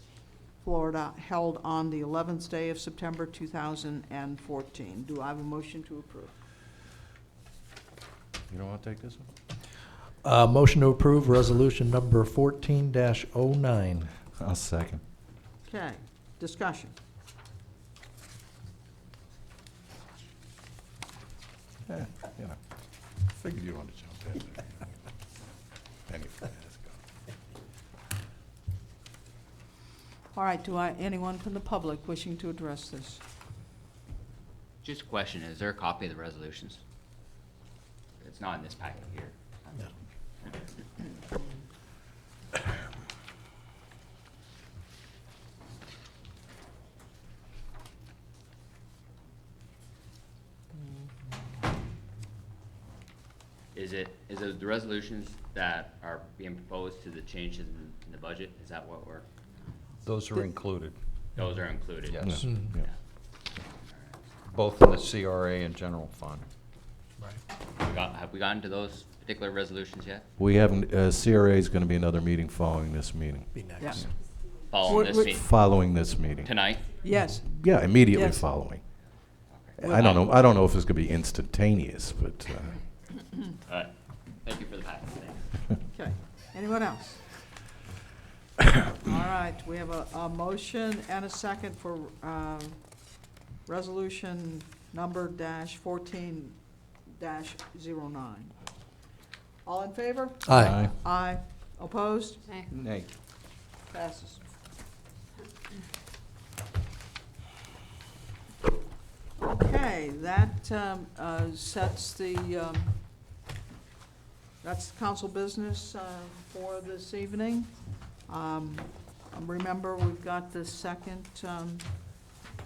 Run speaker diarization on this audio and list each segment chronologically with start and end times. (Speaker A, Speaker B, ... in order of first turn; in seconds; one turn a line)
Speaker A: 0.6-6.3
Speaker B: 8.5-9.3
Speaker C: 10.2-14.1
Speaker B: 14.3-15.0
Speaker A: 15.7-16.9
Speaker B: 21.9-22.6
Speaker B: 23.3-24.6
Speaker B: 26.1-26.9
Speaker A: 30.3-33.2
Speaker D: 34.8-36.8
Speaker D: 38.2-39.9
Speaker D: 53.7-59.3
Speaker E: 60.0-60.9
Speaker D: 61.4-62.9
Speaker E: 62.1-62.4
Speaker B: 62.2-62.8
Speaker D: 63.7-64.2
Speaker E: 64.5-66.5
Speaker D: 67.8-70.2
Speaker B: 70.4-74.0
Speaker A: 73.8-74.1
Speaker D: 74.7-75.5
Speaker A: 74.8-75.3
Speaker B: 75.2-76.6
Speaker D: 76.4-76.9
Speaker A: 77.0-77.5
Speaker B: 77.3-78.9
Speaker A: 78.1-78.5
Speaker D: 79.5-80.4
Speaker B: 79.8-82.8
Speaker D: 83.7-85.5
Speaker A: 85.9-87.2
Speaker A: 89.0-98.6
Speaker A: 99.6-102.4
Speaker C: 100.5-100.7
Speaker B: 100.6-100.9
Speaker A: 103.9-104.4
Speaker A: 109.4-113.0
Speaker A: 114.6-121.9